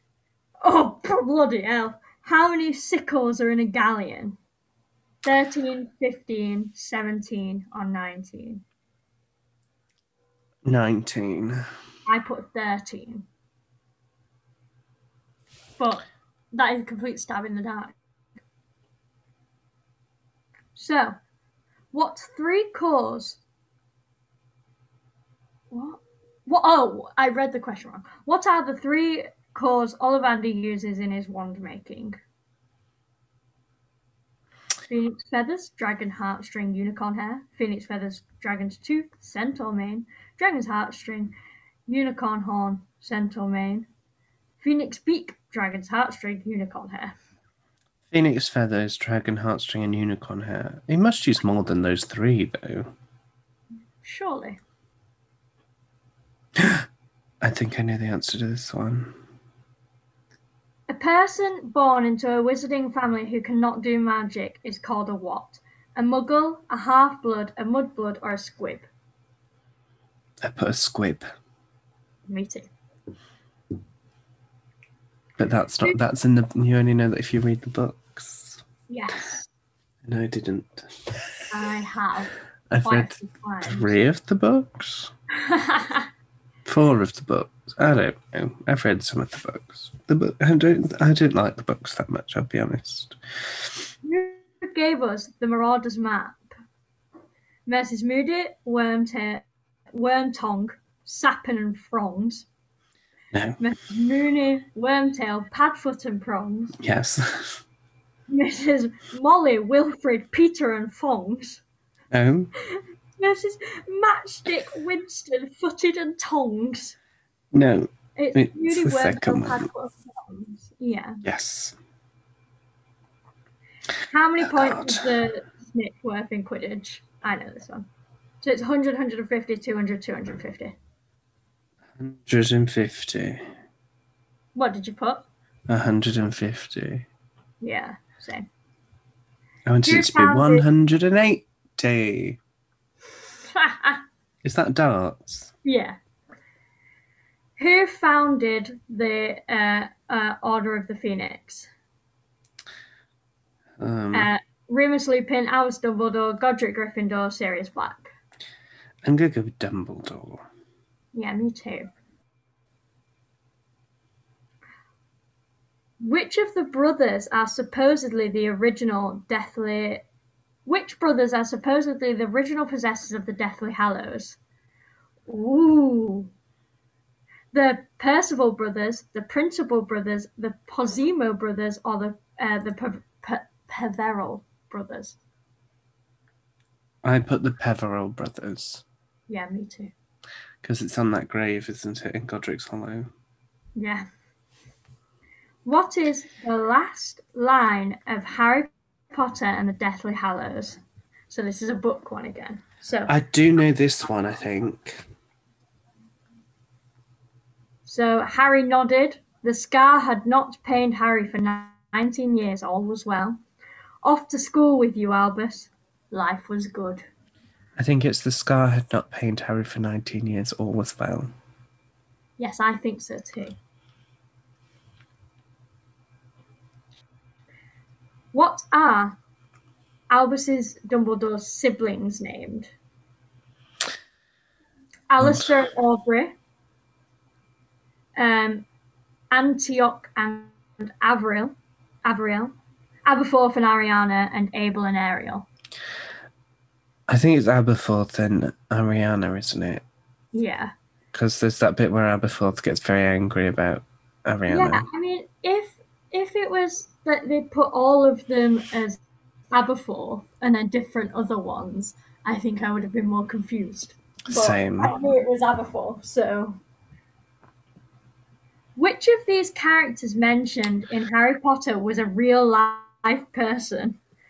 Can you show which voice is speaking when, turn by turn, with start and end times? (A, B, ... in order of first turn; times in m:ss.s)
0:00.6-0:04.4 A
0:05.2-0:08.6 A
0:10.7-0:11.6 B
0:12.1-0:13.3 A
0:15.8-0:17.9 A
0:20.8-0:21.2 A
0:21.9-0:23.4 A
0:25.7-0:32.2 A
0:34.9-0:41.3 A
0:41.9-0:43.9 A
0:44.6-0:47.1 A
0:48.1-0:52.9 B
0:54.0-0:54.6 A
0:56.6-0:56.8 B
0:57.4-0:59.2 B
1:00.9-1:08.9 A
1:10.4-1:11.3 B
1:12.3-1:12.7 A
1:15.4-1:18.6 B
1:18.9-1:19.5 A
1:20.0-1:21.3 B
1:21.5-1:24.0 A
1:22.7-1:25.1 B
1:25.3-1:26.1 A
1:26.7-1:33.6 B
1:34.0-1:36.5 A
1:37.7-1:42.5 A
1:43.3-1:43.6 B
1:43.6-1:46.8 A
1:46.8-1:47.6 B
1:48.3-1:51.6 A
1:52.1-1:52.5 B
1:52.6-1:57.0 A
1:57.5-1:59.6 B
1:58.2-2:01.2 A
2:01.2-2:01.8 B
2:04.1-2:07.9 A
2:04.4-2:05.1 B
2:08.4-2:10.8 A
2:12.0-2:13.5 B
2:14.6-2:15.3 A
2:15.7-2:17.1 B
2:17.6-2:18.5 A
2:19.7-2:22.4 B
2:19.8-2:20.7 A
2:23.5-2:24.0 A
2:24.4-2:25.5 B
2:25.6-2:26.0 A
2:27.6-2:31.7 A
2:33.8-2:34.3 B
2:34.1-2:38.1 A
2:39.0-2:40.4 B
2:41.1-2:41.9 A
2:46.0-2:50.0 A
2:50.7-2:54.4 A
2:55.3-2:56.3 A
2:57.5-3:05.2 A
3:07.0-3:08.8 B
3:09.3-3:09.9 A
3:10.6-3:13.1 B
3:13.8-3:14.0 A
3:15.6-3:20.8 A
3:21.3-3:23.1 A
3:23.1-3:25.0 B
3:27.8-3:33.4 A
3:34.0-3:37.0 A
3:37.8-3:41.3 B
3:42.4-3:43.6 A
3:48.3-3:49.2 A
3:50.1-3:52.7 A
3:55.1-3:56.4 A
3:55.2-3:55.5 B
3:58.2-3:58.7 A
3:59.3-4:02.6 A
4:03.1-4:05.5 A
4:07.1-4:09.8 B
4:10.3-4:10.7 A
4:11.1-4:14.9 B
4:14.5-4:19.0 A
4:19.5-4:26.6 A
4:24.3-4:24.9 B
4:28.8-4:34.0 A